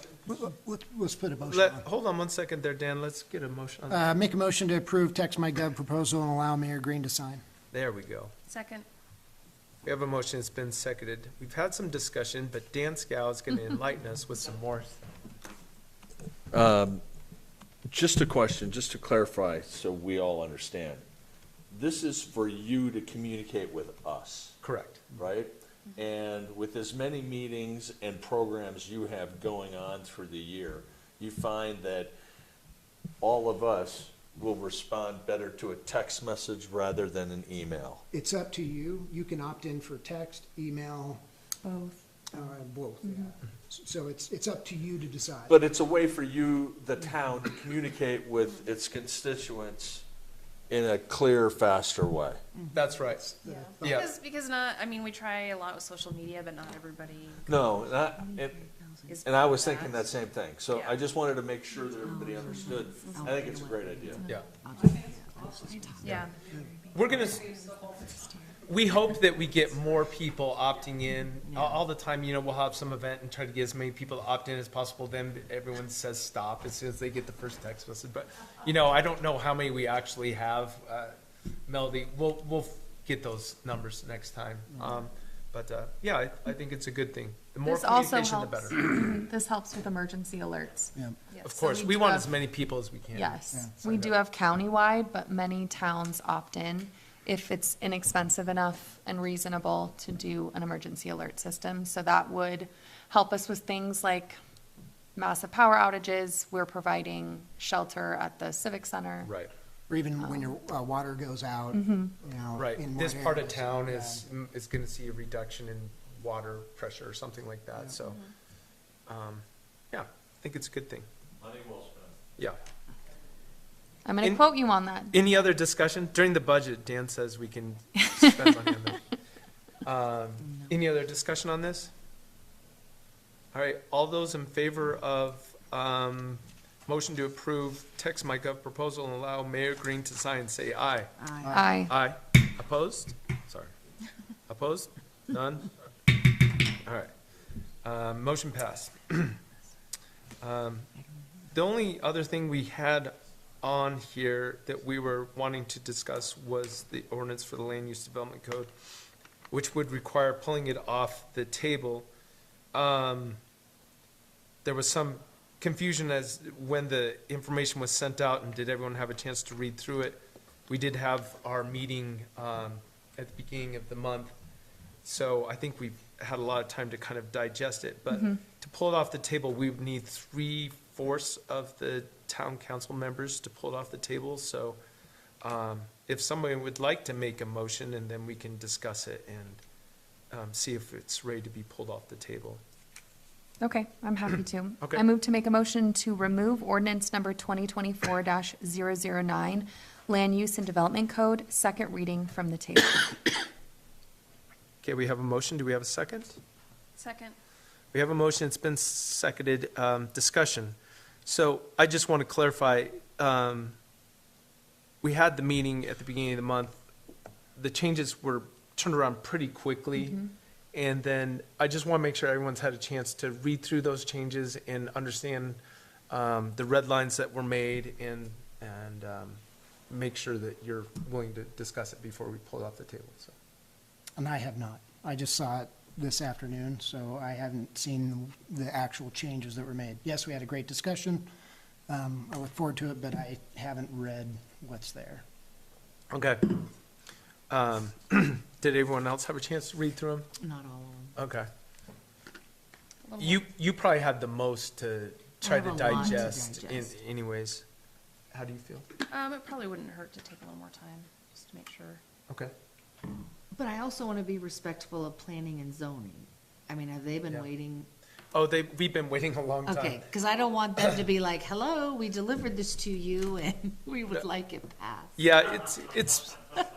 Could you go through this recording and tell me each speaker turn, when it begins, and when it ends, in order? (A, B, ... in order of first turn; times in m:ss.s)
0:00.2-0:01.8 A
0:01.5-0:04.1 B
0:03.9-0:07.4 A
0:07.7-0:08.3 B
0:08.5-0:08.8 C
0:09.8-0:15.0 B
0:16.5-0:17.0 D
0:17.9-0:21.0 D
0:21.7-0:24.6 D
0:24.6-0:25.2 B
0:25.2-0:32.1 D
0:33.2-0:38.0 D
0:38.1-0:41.2 A
0:41.6-0:42.1 E
0:42.3-0:45.6 A
0:45.5-0:50.0 D
0:50.7-0:52.4 D
0:52.6-0:53.0 F
0:52.7-0:53.3 B
0:53.1-0:54.0 A
0:53.4-0:57.6 C
0:53.8-0:54.1 B
0:57.5-0:58.6 D
0:58.2-1:00.0 F
0:59.1-1:00.1 C
0:59.2-1:04.2 D
1:02.0-1:08.4 F
1:04.2-1:04.5 B
1:05.7-1:06.2 A
1:06.0-1:06.4 C
1:06.9-1:07.5 B
1:08.6-1:21.1 B
1:11.5-1:11.8 F
1:21.7-1:28.8 B
1:27.6-1:30.9 E
1:31.4-1:34.1 B
1:31.5-1:32.3 E
1:33.2-1:44.4 E
1:45.2-1:49.3 E
1:49.2-1:49.5 B
1:49.9-1:54.2 A
1:50.2-1:50.5 E
1:51.7-1:52.1 E
1:52.6-1:58.2 B
1:59.1-2:01.1 B
2:01.4-2:02.1 D
2:04.0-2:05.2 E
2:04.2-2:04.4 B
2:05.1-2:09.0 B
2:09.8-2:11.9 B
2:10.5-2:10.8 F
2:13.5-2:23.7 B
2:21.2-2:21.6 F
2:21.4-2:21.7 A
2:21.5-2:21.9 E
2:24.5-2:25.7 B
2:26.8-2:27.1 B
2:27.8-2:29.4 B
2:30.4-2:30.9 B
2:31.5-2:38.7 B
2:39.5-2:42.1 B
2:42.7-2:43.4 B
2:44.6-2:54.3 B
2:55.0-3:04.8 B
2:58.1-2:58.4 E
3:05.4-3:09.6 B
3:10.3-3:12.6 B
3:13.6-3:23.4 E
3:24.8-3:26.4 B
3:27.0-3:27.4 C
3:27.9-3:33.8 B
3:35.0-3:36.8 B
3:37.6-3:40.2 B
3:40.0-3:40.3 E
3:40.7-3:53.3 B
3:54.2-4:01.3 A
4:01.9-4:05.2 A
4:06.1-4:06.7 B
4:07.5-4:10.3 B
4:10.4-4:11.2 F
4:11.2-4:11.5 B
4:13.0-4:13.4 C
4:13.2-4:17.6 B
4:15.4-4:16.9 F
4:18.3-4:18.8 B
4:19.1-4:22.0 C
4:23.5-4:27.9 F
4:28.3-4:30.0 B
4:29.6-4:35.2 F
4:35.2-4:36.4 B